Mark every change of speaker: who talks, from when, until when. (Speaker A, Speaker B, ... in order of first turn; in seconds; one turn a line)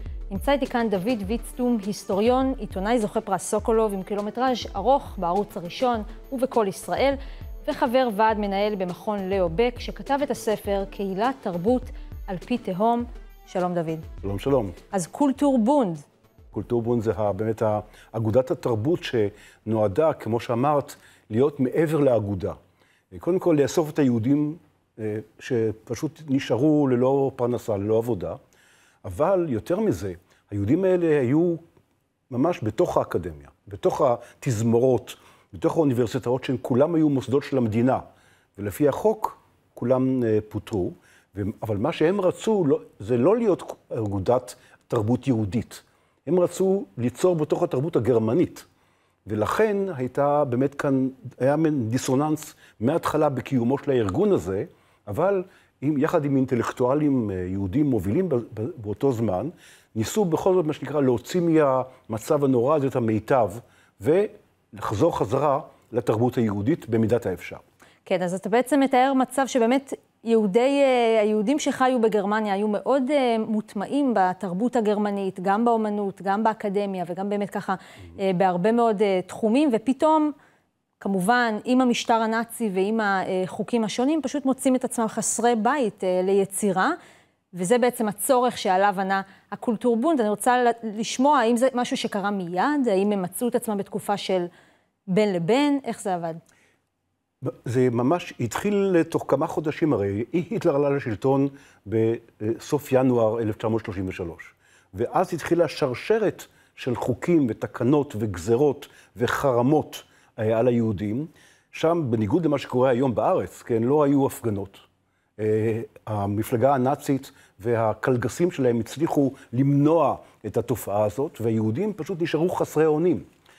Speaker A: 0.3-14.1
Speaker B: 14.2-14.8
Speaker A: 14.9-16.0
Speaker B: 16.5-22.6
Speaker B: 23.1-28.4
Speaker B: 29.0-31.6
Speaker B: 32.3-38.0
Speaker B: 38.6-48.7
Speaker B: 49.2-67.6
Speaker A: 68.0-80.3
Speaker A: 81.0-87.0
Speaker A: 87.5-94.5
Speaker A: 95.1-96.4
Speaker B: 97.4-114.8
Speaker B: 115.4-123.2